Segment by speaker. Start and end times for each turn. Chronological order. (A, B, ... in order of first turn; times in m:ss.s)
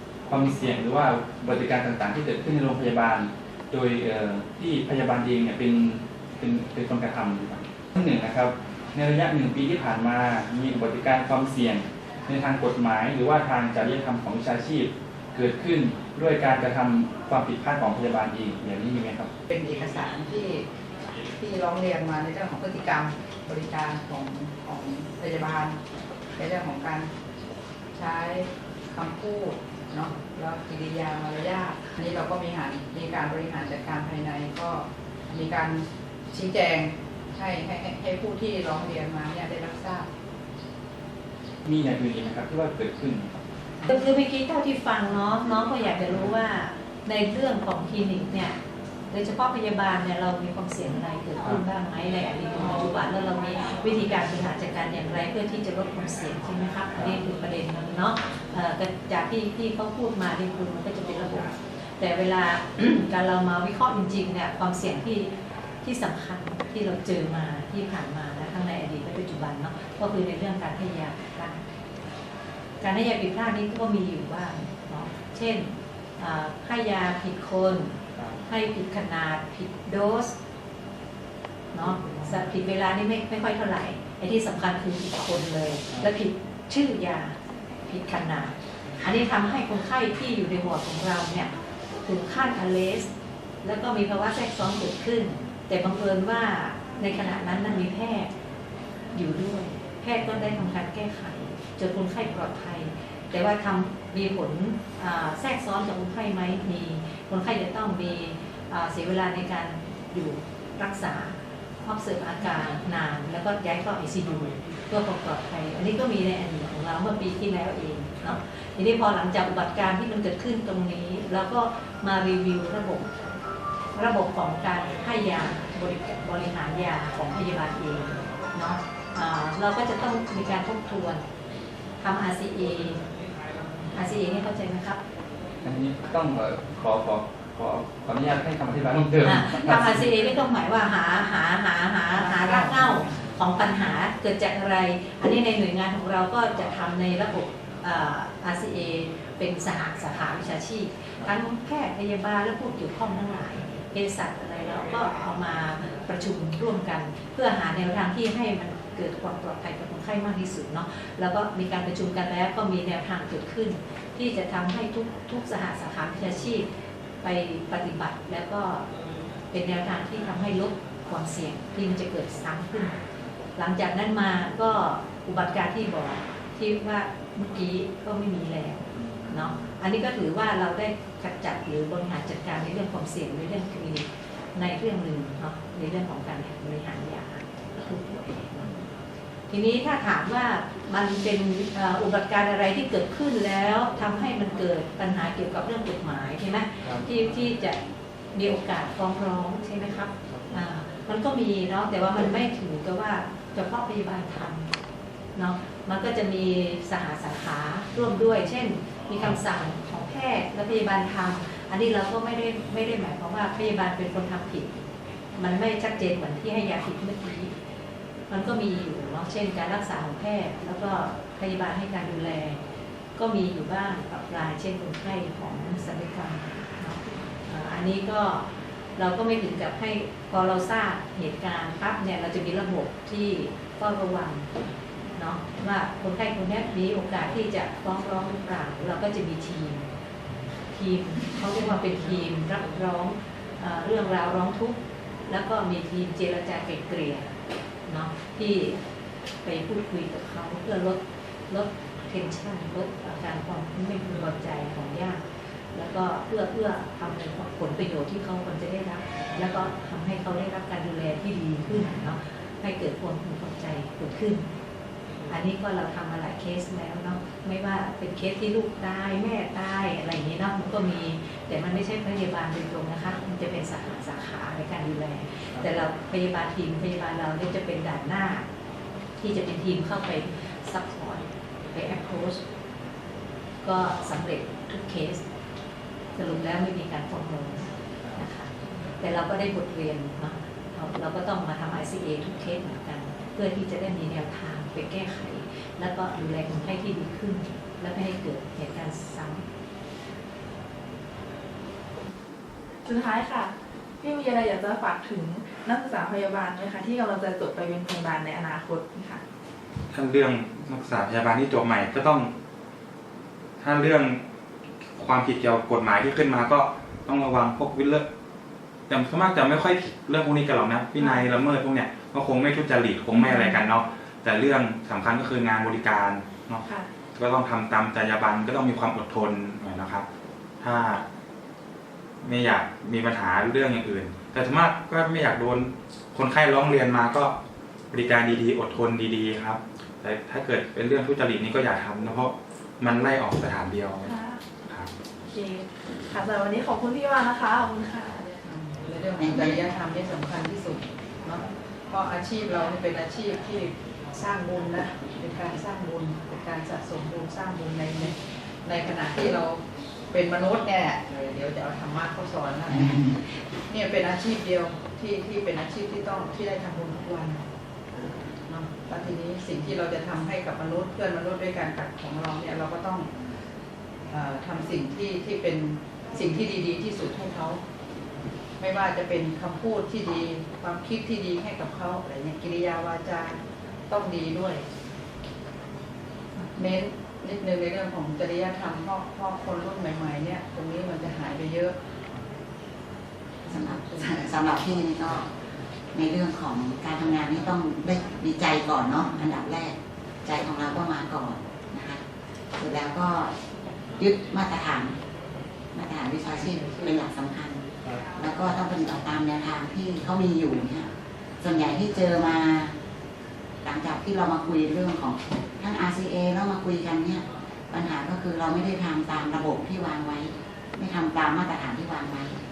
0:00.2-0:19.3 A
0:19.5-0:20.6 B
0:21.4-0:25.8 B
0:26.4-0:27.1 B
0:27.9-0:40.1 B
0:41.6-0:43.4 A
0:43.9-0:48.6 C
0:49.1-1:11.6 C
0:57.0-0:57.2 A
1:12.8-1:18.0 C
1:18.2-1:18.4 A
1:18.5-1:20.4 C
1:21.7-1:31.5 C
1:32.0-1:33.1 C
1:33.6-1:38.3 C
1:39.1-2:03.1 C
2:03.9-2:11.2 C
2:12.0-2:13.0 C
2:13.9-2:15.0 C
2:15.6-2:20.1 A
2:19.2-2:46.7 C
2:47.2-2:48.9 C
2:49.5-2:53.0 C
2:53.6-3:08.8 C
2:59.0-2:59.6 A
3:09.5-3:17.8 C
3:18.3-3:24.7 C
3:20.3-3:20.6 A
3:25.4-3:37.5 C
3:38.3-3:42.6 C
3:43.2-3:54.5 C
3:55.1-3:59.9 C
4:00.7-4:07.3 C
4:07.9-4:08.8 C
4:09.4-4:15.2 C
4:15.7-4:24.5 C
4:25.3-4:38.5 C
4:39.2-4:42.4 C
4:43.6-4:45.2 C
4:46.2-4:59.4 C
5:02.8-5:09.2 D
5:09.9-5:12.3 E
5:13.6-5:14.2 E
5:15.0-5:18.0 E
5:18.9-5:30.1 E
5:21.0-5:21.3 D
5:23.1-5:23.6 D
5:30.6-5:31.0 E
5:32.2-5:37.4 E
5:37.9-5:44.9 E
5:44.0-5:44.4 D
5:45.3-5:48.4 D
5:48.4-5:59.6 B
5:49.2-5:49.6 F
6:00.1-6:07.4 B
6:08.4-6:13.1 B
6:14.1-6:17.6 B
6:18.6-6:24.6 B
6:26.6-6:31.8 B
6:33.5-6:34.2 B
6:33.5-6:35.3 F
6:35.9-6:42.0 F
6:42.6-6:43.4 F
6:44.0-6:45.0 F
6:45.7-6:47.6 F
6:48.2-6:50.9 F
6:51.4-6:52.8 F
6:53.6-7:02.4 F